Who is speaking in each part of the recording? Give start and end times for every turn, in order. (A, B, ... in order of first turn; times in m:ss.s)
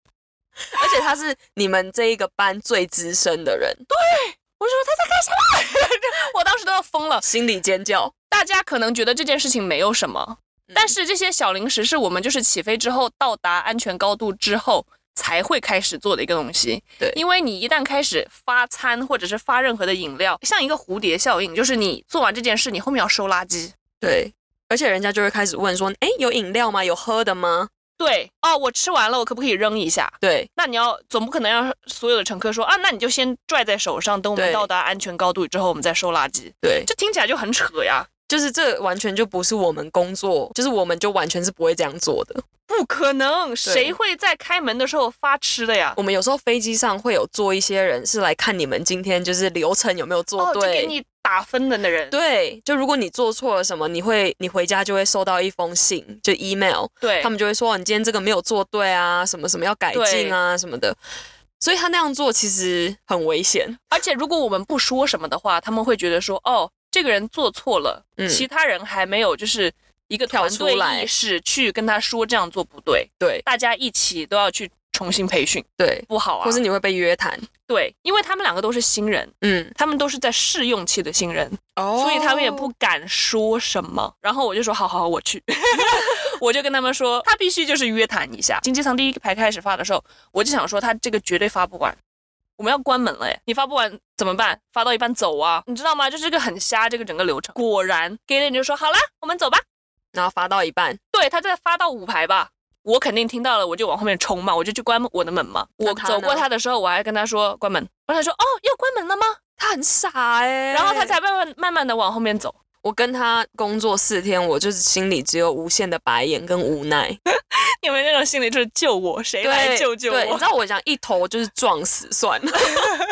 0:00.7-0:03.8 A
0:03.9-0:07.3 B
0:07.2-0:08.1 A
0:08.3-0:23.7 B
0:10.7-0:10.9 A
0:24.0-0:27.7 A
0:28.0-0:38.1 B
0:30.2-0:30.5 A
0:34.4-0:34.7 A
0:36.6-0:36.9 A
0:38.3-0:42.4 A
0:42.7-0:46.0 B
0:43.6-0:43.9 A
0:46.0-0:50.9 A
0:50.4-0:52.2 B
0:52.1-1:01.0 A
0:57.0-0:57.3 B
0:59.9-1:00.4 B
1:01.6-1:03.8 A
1:03.9-1:16.6 B
1:08.2-1:08.4 A
1:10.3-1:11.1 A
1:13.2-1:13.4 A
1:15.8-1:17.5 A
1:17.7-1:32.0 B
1:19.4-1:19.7 A
1:21.8-1:22.7 A
1:32.6-1:39.6 B
1:40.1-1:41.0 A
1:41.1-1:49.4 B
1:45.8-1:46.4 A
1:49.6-1:51.1 A
1:50.7-1:52.6 B
1:52.8-1:57.2 A
1:57.3-2:00.5 B
1:59.4-2:02.9 A